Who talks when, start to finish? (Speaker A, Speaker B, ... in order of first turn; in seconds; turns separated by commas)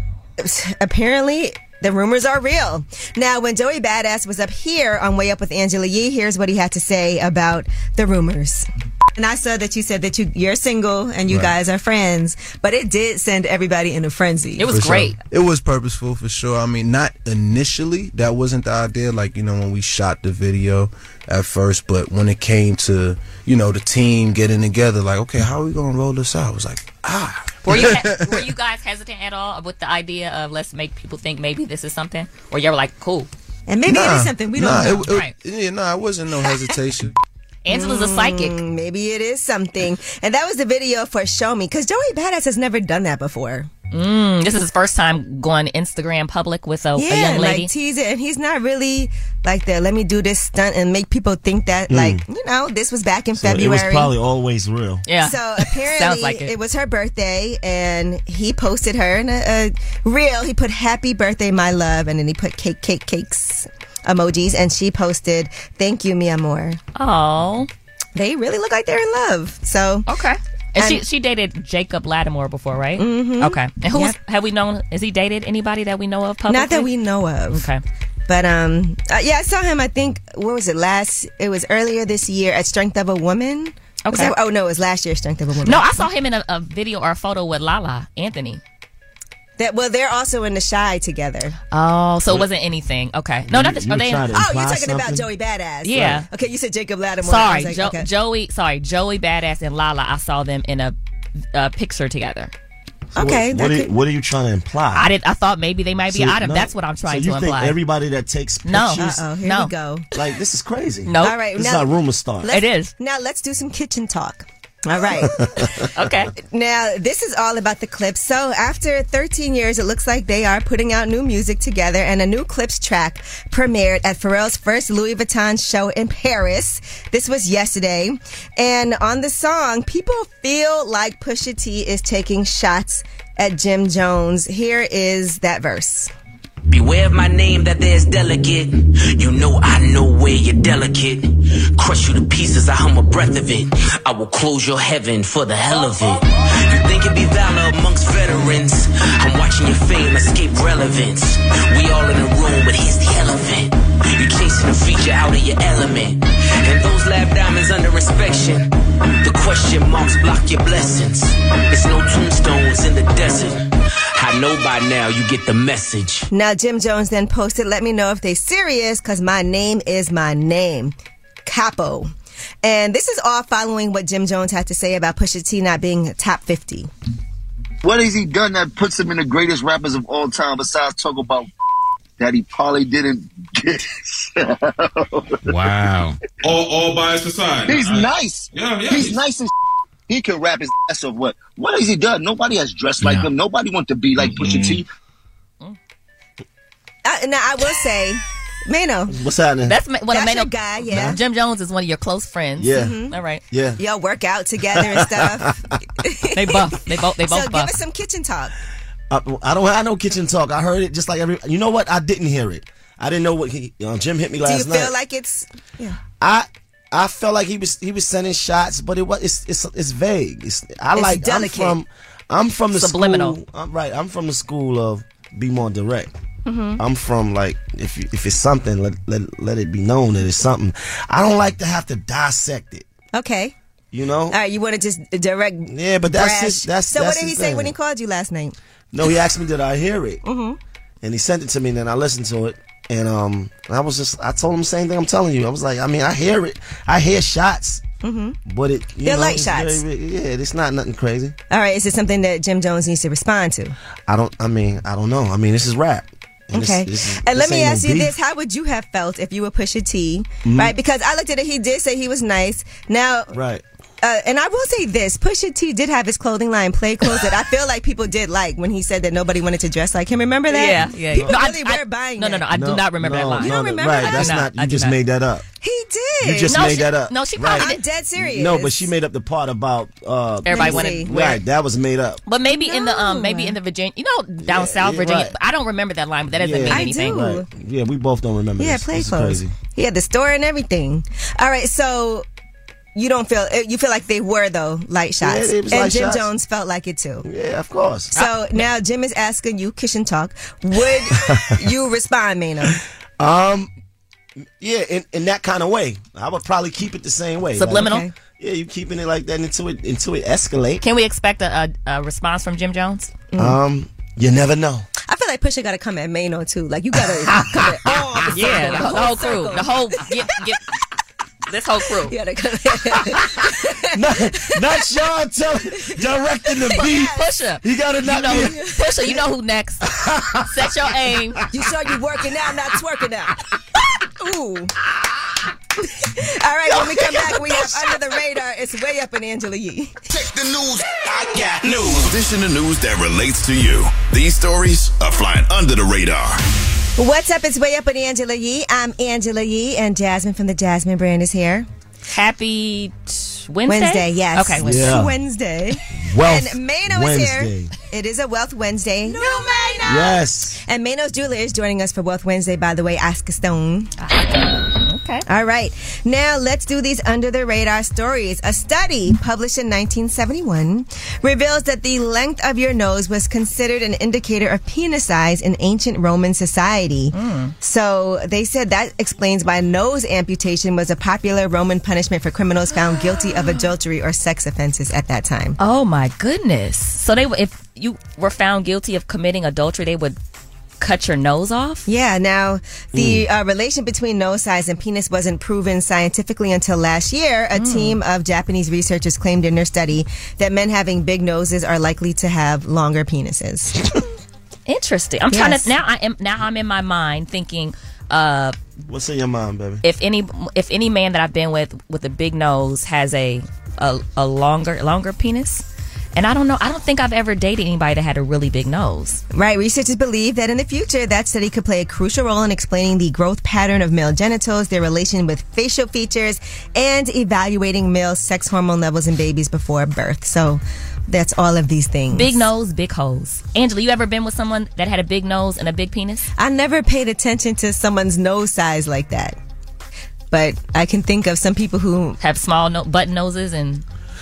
Speaker A: 0.4-14.7, Speaker B: 11.3-11.6, Speaker C: 14.6-15.2, Speaker B: 14.7-28.5, Speaker C: 27.6-33.3, Speaker A: 33.7-35.1, Speaker B: 33.9-37.1, Speaker C: 35.0-35.4, Speaker A: 36.4-36.7, Speaker C: 37.6-38.6, Speaker A: 37.7-43.7, Speaker C: 43.9-47.7, Speaker A: 47.0-54.1, Speaker D: 51.9-52.2, Speaker D: 53.4-55.0, Speaker C: 55.1-56.5, Speaker A: 55.2-66.8, Speaker C: 67.0-67.7, Speaker A: 68.2-70.1, Speaker C: 70.1-76.9, Speaker A: 73.0-74.2, Speaker A: 76.5-77.7, Speaker C: 77.5-77.8, Speaker A: 78.3-86.1, Speaker C: 84.1-84.3, Speaker C: 85.6-88.6, Speaker A: 89.6-91.6, Speaker C: 91.7-94.3, Speaker D: 93.5-95.3, Speaker A: 94.3-98.1, Speaker C: 95.8-96.3, Speaker D: 96.0-96.2, Speaker C: 97.2-101.0, Speaker C: 101.5-102.5, Speaker D: 103.2-105.1, Speaker A: 103.2-103.9, Speaker C: 104.9-107.8, Speaker D: 106.1-109.2, Speaker C: 108.7-109.7, Speaker A: 109.0-110.0, Speaker D: 110.1-112.5, Speaker C: 111.1-111.4, Speaker A: 111.2-111.9, Speaker A: 112.4-115.4, Speaker C: 112.5-112.9, Speaker D: 115.2-115.8, Speaker C: 116.0-116.3, Speaker A: 116.4-136.1, Speaker E: 136.7-163.6, Speaker E: 164.2-166.3, Speaker A: 166.3-172.1, Speaker A: 172.6-176.9, Speaker F: 177.8-181.5, Speaker F: 182.2-185.4, Speaker G: 185.5-189.2, Speaker F: 187.7-189.5, Speaker F: 190.1-194.9, Speaker G: 194.2-194.8, Speaker A: 197.1-199.1, Speaker D: 199.1-199.8, Speaker C: 199.7-203.4, Speaker A: 200.1-201.2, Speaker D: 200.9-201.2, Speaker D: 202.6-203.0, Speaker A: 202.8-203.1, Speaker D: 203.5-203.8, Speaker A: 203.8-206.6, Speaker D: 204.7-205.5, Speaker C: 206.4-207.8, Speaker A: 207.3-208.5, Speaker D: 209.1-214.9, Speaker A: 214.5-216.0, Speaker D: 216.2-226.1, Speaker A: 220.9-221.8, Speaker C: 222.7-223.4, Speaker A: 226.5-226.8, Speaker D: 226.8-232.8, Speaker A: 233.1-233.5, Speaker D: 233.9-234.4, Speaker A: 234.3-238.6, Speaker D: 235.7-237.8, Speaker D: 238.9-240.2, Speaker A: 240.2-240.6, Speaker D: 241.0-247.8, Speaker A: 248.0-248.4, Speaker D: 248.5-251.4, Speaker A: 249.0-249.8, Speaker A: 251.5-253.8, Speaker D: 254.1-258.1, Speaker A: 256.5-263.3, Speaker D: 260.4-260.7, Speaker D: 263.3-263.6, Speaker A: 264.0-272.4, Speaker C: 270.5-275.0, Speaker D: 272.5-275.4, Speaker A: 273.4-274.4, Speaker A: 275.6-276.6, Speaker D: 276.2-282.2, Speaker C: 276.5-277.8, Speaker A: 277.6-278.9, Speaker C: 280.4-281.2, Speaker A: 280.5-281.4, Speaker C: 282.3-287.3, Speaker A: 282.5-283.6, Speaker D: 284.4-285.4, Speaker D: 286.3-289.6, Speaker A: 286.7-287.5, Speaker A: 288.6-292.2, Speaker A: 292.9-297.2, Speaker D: 295.2-296.3, Speaker D: 297.2-298.1, Speaker A: 298.1-302.8, Speaker C: 298.1-298.6, Speaker D: 303.2-303.7, Speaker D: 304.6-310.8, Speaker C: 307.6-308.1, Speaker A: 307.7-308.1, Speaker C: 310.8-313.1, Speaker A: 313.3-313.6, Speaker D: 313.4-314.9, Speaker A: 315.1-320.1, Speaker C: 317.3-317.7, Speaker C: 318.3-320.7, Speaker C: 321.5-322.1, Speaker A: 322.1-324.5, Speaker D: 323.9-328.6, Speaker A: 326.6-327.2, Speaker C: 326.8-331.4, Speaker A: 328.2-328.8, Speaker D: 329.9-330.4, Speaker A: 331.5-333.4, Speaker A: 334.0-334.7, Speaker A: 335.8-339.9, Speaker D: 337.0-337.4, Speaker H: 340.2-340.6, Speaker H: 341.8-346.4, Speaker A: 347.0-351.7, Speaker C: 352.1-355.0, Speaker A: 353.7-363.9, Speaker D: 354.6-355.1, Speaker D: 355.9-357.7, Speaker D: 359.8-360.6, Speaker C: 364.0-365.2, Speaker A: 365.3-385.6, Speaker C: 377.1-377.6, Speaker C: 382.9-383.7, Speaker C: 385.6-390.2, Speaker C: 390.8-391.9, Speaker A: 391.9-403.8, Speaker D: 392.9-393.2, Speaker C: 397.6-398.0, Speaker C: 404.7-408.6, Speaker A: 405.3-405.7, Speaker D: 408.9-409.8, Speaker C: 409.8-419.2, Speaker A: 419.3-432.4, Speaker C: 432.1-436.2, Speaker A: 436.4-439.4, Speaker A: 440.3-442.2, Speaker C: 442.2-443.8